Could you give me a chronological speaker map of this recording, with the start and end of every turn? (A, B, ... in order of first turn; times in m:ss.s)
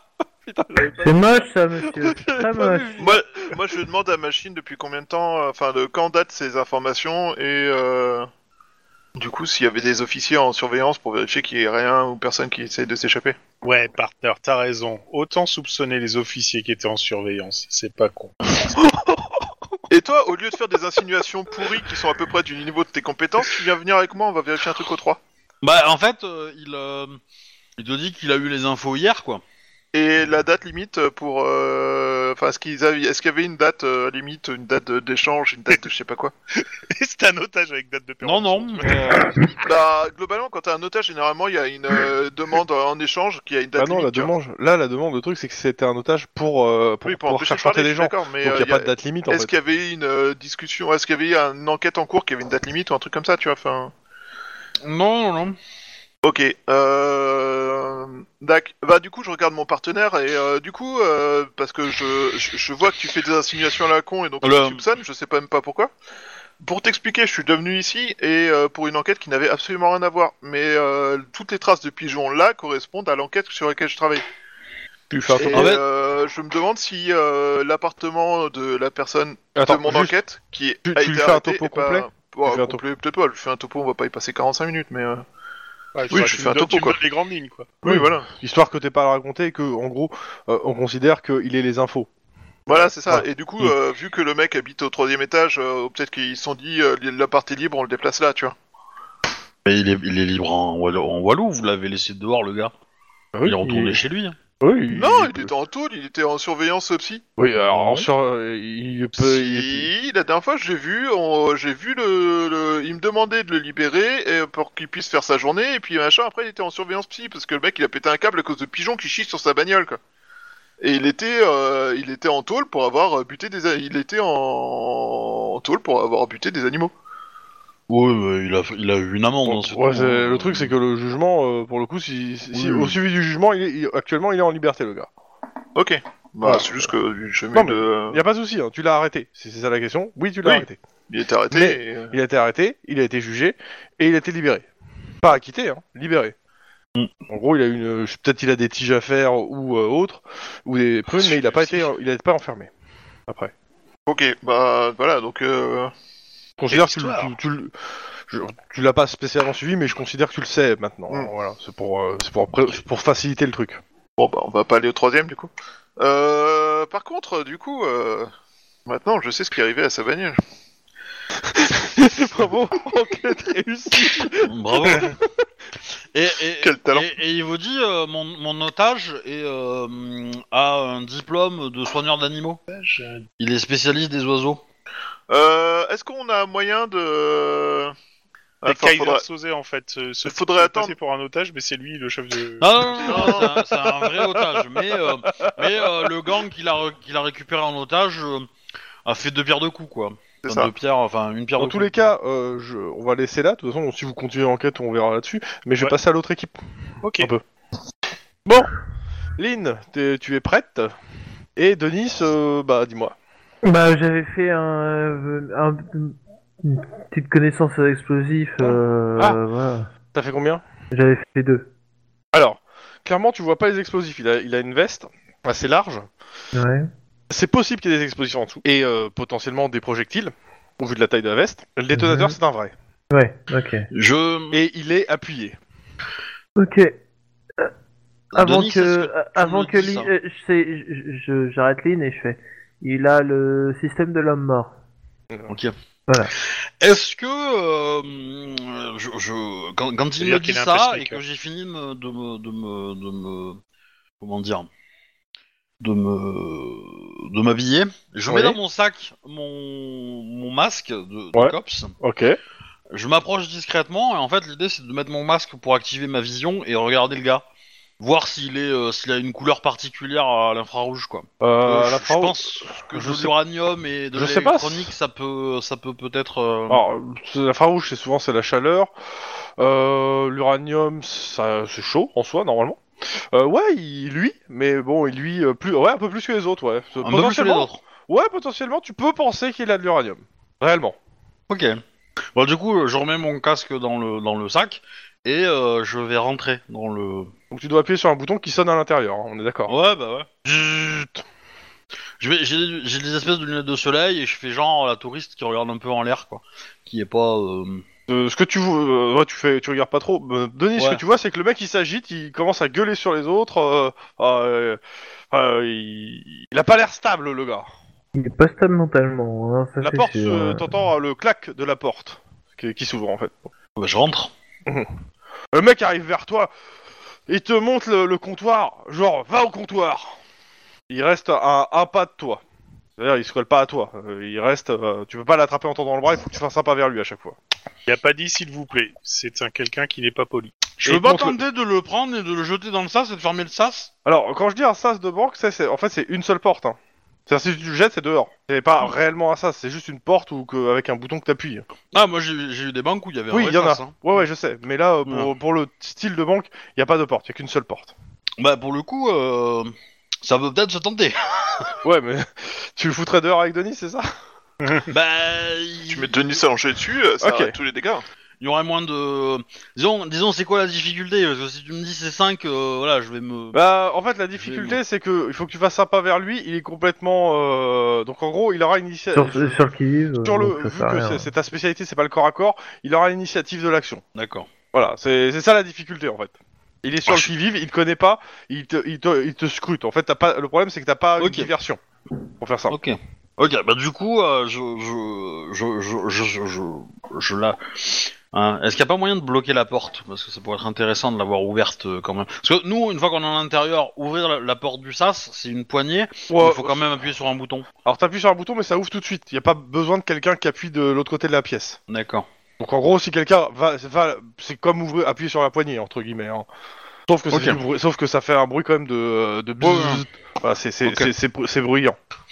0:00.4-0:03.8 A
0:00.8-0:03.0 B
0:03.0-0:08.3 C
0:09.2-0:13.4 C
0:13.6-0:18.6 D
0:18.7-0:19.5 A
0:19.9-0:25.2 C
0:25.6-0:27.2 E
0:27.8-0:29.4 E
0:29.9-0:36.3 C
0:36.7-0:39.5 D
0:38.2-0:39.3 E
0:39.6-0:44.3 C
0:43.8-0:49.5 A
0:47.0-0:53.9 C
0:54.8-0:55.6 E
0:56.2-1:05.9 C
1:04.4-1:04.8 E
1:06.6-1:14.2 C
1:15.1-1:15.7 A
1:15.3-1:25.2 C
1:15.5-1:15.8 E
1:19.6-1:20.1 A
1:20.9-1:22.8 A
1:26.0-1:27.7 D
1:26.1-1:27.0 C
1:27.8-1:28.3 C
1:27.9-1:32.1 A
1:32.7-1:38.6 C
1:33.1-1:33.7 A
1:39.6-1:42.7 E
1:43.4-1:44.0 A
1:43.4-1:44.4 E
1:44.6-1:45.5 A
1:44.9-1:47.2 C
1:47.4-1:49.9 A
1:47.7-1:48.1 E
1:49.2-2:00.0 C
2:00.8-2:06.9 C
2:07.9-2:10.7 E
2:09.4-2:15.1 A
2:12.5-2:13.0 E
2:15.7-2:18.2 C
2:17.5-2:20.8 A
2:20.4-2:22.2 C
2:21.5-2:24.7 A
2:25.2-2:26.4 A
2:27.3-2:32.7 A
2:34.1-2:35.9 C
2:36.6-2:37.7 A
2:36.7-2:37.3 D
2:38.3-2:43.8 A
2:44.2-2:48.3 C
2:48.9-2:50.4 C
2:51.4-2:55.2 A
2:54.4-2:55.2 E
2:56.1-3:02.6 E
2:56.6-2:57.1 C
3:02.7-3:03.3 D
3:03.4-3:04.6 E
3:05.3-3:07.9 C
3:08.6-3:09.2 C
3:08.6-3:13.4 D
3:10.2-3:11.0 C
3:12.6-3:18.5 E
3:13.0-3:13.6 C
3:15.4-3:16.1 A
3:19.0-3:22.0 E
3:20.4-3:20.7 C
3:21.6-3:26.6 A
3:27.0-3:27.3 D
3:28.4-3:28.7 A
3:29.4-3:30.9 A
3:31.6-3:33.2 A
3:33.6-3:39.9 B
3:38.7-3:39.4 A
3:40.1-3:40.6 A
3:40.9-3:41.7 B
3:42.3-3:46.1 A
3:46.5-3:46.9 B
3:47.3-3:52.7 A
3:51.9-3:52.4 B
3:53.1-3:53.9 B
3:53.9-3:54.6 E
3:54.5-3:55.6 A
3:56.6-3:57.0 B
3:58.3-4:00.1 E
3:58.4-4:04.7 B
4:05.5-4:05.7 E
4:06.4-4:13.6 E
4:10.2-4:11.2 D
4:14.2-4:14.7 E
4:15.8-4:22.0 E
4:18.3-4:18.6 A
4:21.4-4:22.4 A
4:22.9-4:27.4 E
4:28.0-4:36.8 E
4:31.4-4:33.3 A
4:34.2-4:34.9 A
4:36.7-4:38.9 A
4:39.6-4:51.0 A
4:47.0-4:47.8 E
4:51.5-4:51.8 E
4:52.4-4:57.3 E
4:57.5-4:59.7 A
4:59.7-5:00.4 E
5:00.4-5:01.2 A
5:02.2-5:07.8 E
5:08.1-5:17.7 A
5:10.8-5:11.0 E
5:18.1-5:20.8 B
5:19.8-5:23.5 A
5:23.8-5:24.3 E
5:25.5-5:26.5 A
5:27.3-5:30.2 A
5:30.9-5:32.4 A
5:33.0-5:37.4 A
5:37.9-5:40.6 D
5:40.8-5:43.9 E
5:40.8-5:41.4 A
5:44.0-5:51.6 A
5:51.9-5:54.0 E
5:53.3-5:57.9 A
5:55.1-5:55.3 E
5:58.4-5:59.7 E
6:00.2-6:01.7 E
6:01.8-6:04.1 A
6:04.6-6:04.9 D
6:04.9-6:06.4 E
6:05.9-6:08.0 C
6:07.2-6:07.6 A
6:08.4-6:13.6 E
6:13.5-6:19.6 A
6:14.4-6:14.8 E
6:19.1-6:21.3 B
6:20.2-6:24.0 A
6:24.2-6:24.5 E
6:24.7-6:31.8 A
6:27.1-6:27.3 E
6:31.2-6:31.5 E
6:32.4-6:32.8 A
6:32.7-6:47.7 E
6:46.3-6:46.8 A
6:47.8-6:51.8 A
6:51.9-6:52.3 E
6:52.6-6:56.5 A
6:57.1-7:02.0 A
6:57.3-6:57.6 E
6:59.6-7:00.0 E
7:00.8-7:01.1 E